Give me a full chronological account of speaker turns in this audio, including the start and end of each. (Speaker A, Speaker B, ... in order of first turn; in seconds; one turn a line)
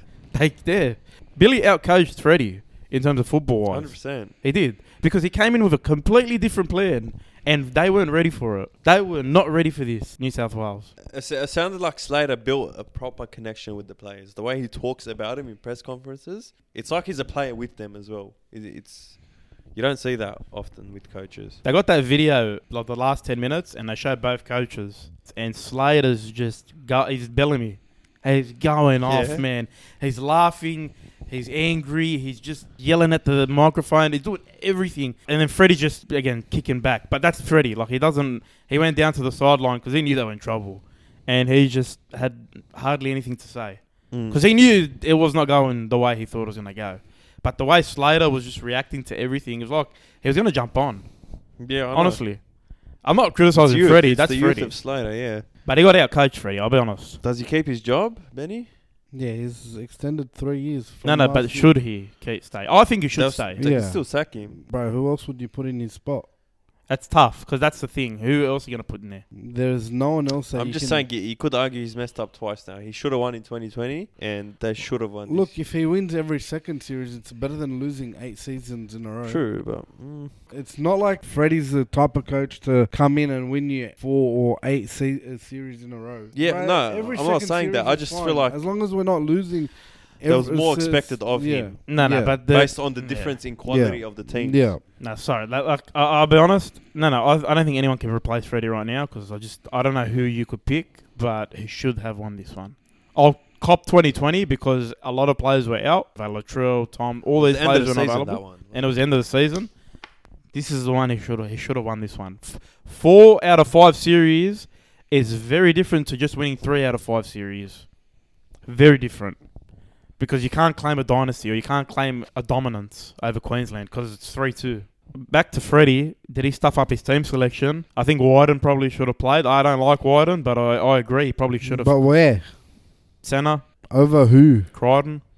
Speaker A: 0.3-10.9
Speaker B: 3.7-4.3
Speaker B: 11.1-19.2
Speaker B: 19.7-21.6
Speaker A: 21.6-51.0
Speaker B: 29.0-29.4
Speaker B: 44.1-44.4
Speaker B: 51.6-52.2
Speaker A: 51.9-52.4
Speaker A: 53.0-54.7
Speaker B: 53.6-55.4
Speaker A: 55.6-57.2
Speaker B: 57.2-58.7
Speaker C: 59.1-61.7
Speaker A: 61.0-63.6
Speaker B: 63.1-64.6
Speaker C: 63.6-66.3
Speaker A: 66.9-69.2
Speaker C: 69.3-71.0
Speaker B: 70.5-75.5
Speaker C: 75.3-79.4
Speaker B: 79.2-80.3
Speaker C: 80.5-92.4
Speaker B: 86.3-88.6
Speaker B: 90.2-91.8
Speaker A: 91.9-93.3
Speaker B: 92.5-94.7
Speaker C: 93.7-94.8
Speaker A: 95.0-109.7
Speaker B: 107.4-108.9
Speaker A: 110.5-117.9
Speaker A: 118.7-119.4
Speaker A: 120.2-131.9
Speaker C: 131.6-132.5
Speaker A: 133.2-133.6
Speaker C: 133.9-134.7
Speaker A: 134.7-135.2